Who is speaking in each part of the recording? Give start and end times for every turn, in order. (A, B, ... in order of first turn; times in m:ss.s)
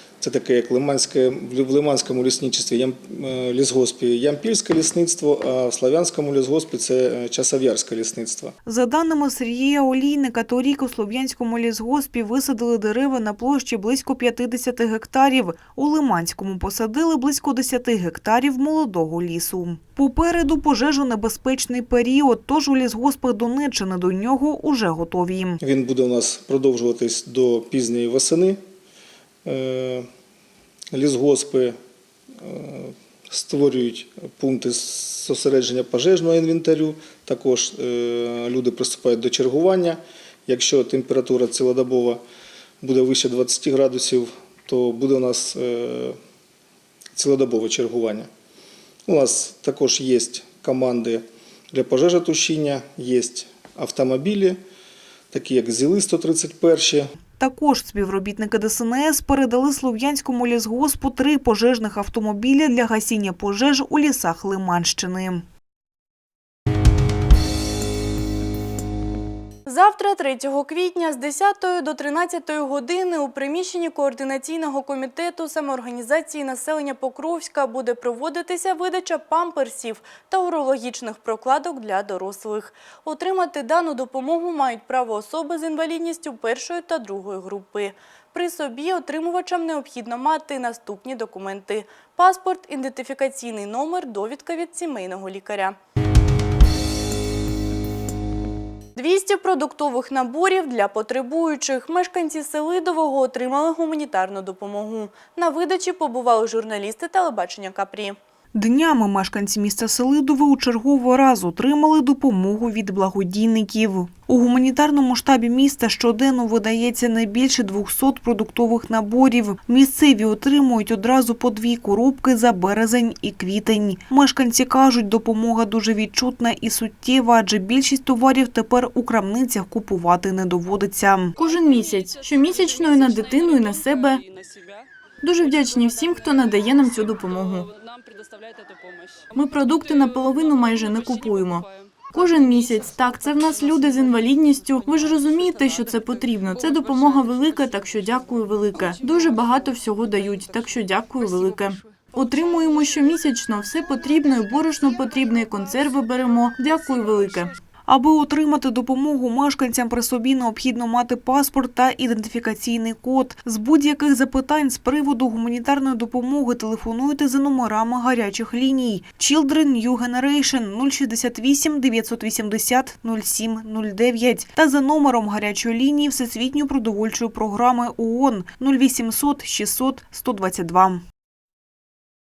0:00.2-0:08.5 A
0:08.6-0:25.6 B
0:25.6-0:28.6 A
0:29.4-0:30.1 A
0:30.9-0:31.8 A
0:32.4-0:42.2 A
0:42.8-0:46.2 A
0:47.1-0:48.3 A
0:49.0-0:54.6 A
0:55.3-0:57.1 A
0:57.4-1:05.4 B
1:09.6-1:35.8 C
1:39.0-1:48.2 C
1:48.5-2:11.3 B
2:11.4-2:14.2 C
2:15.2-2:17.7 C
2:19.3-2:37.5 C
2:37.9-3:01.0 B